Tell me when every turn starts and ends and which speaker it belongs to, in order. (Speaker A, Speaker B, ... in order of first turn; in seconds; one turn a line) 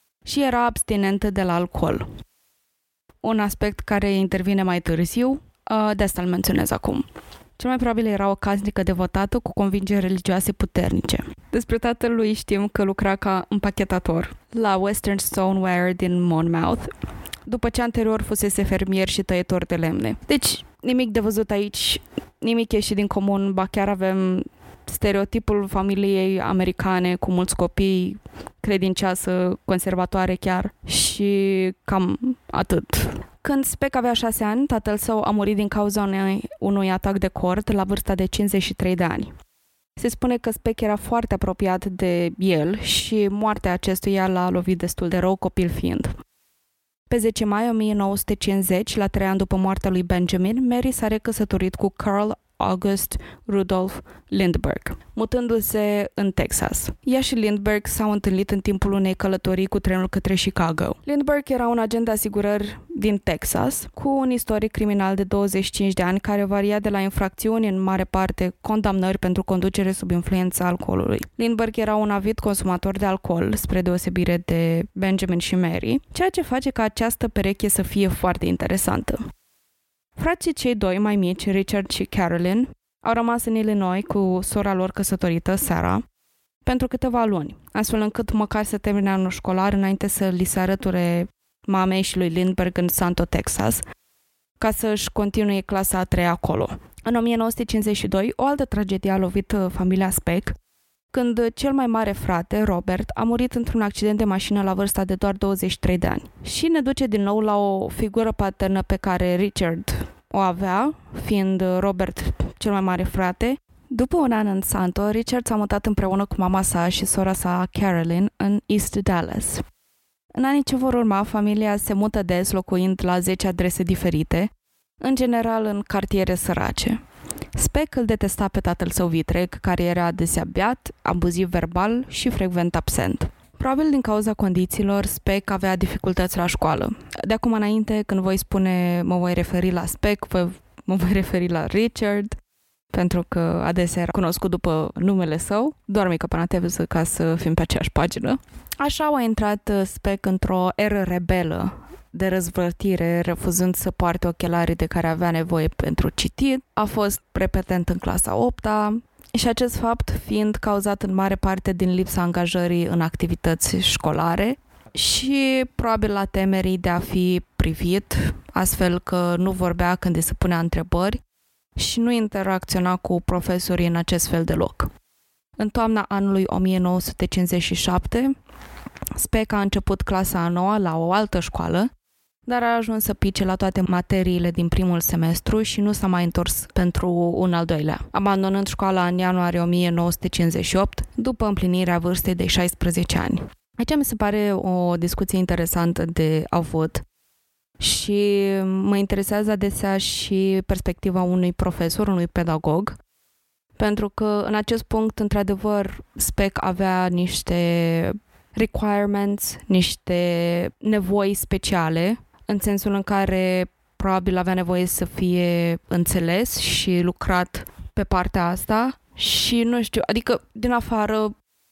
Speaker A: 0.2-2.0
Speaker A: 3.2-7.0
Speaker A: 7.6-16.9
Speaker A: 17.4-39.3
Speaker A: 40.0-46.1
Speaker A: 47.1-79.2
Speaker A: 80.2-86.0
Speaker A: 86.6-93.8
Speaker A: 94.6-100.5
Speaker A: 101.1-119.6
Speaker A: 120.3-124.5
Speaker A: 125.0-127.0
Speaker A: 127.5-142.3
Speaker A: 142.9-171.2
Speaker A: 171.8-174.9
Speaker A: 175.6-178.3
Speaker A: 179.1-181.9
Speaker A: 182.4-197.0
Speaker A: 197.8-203.0
Speaker A: 203.8-221.3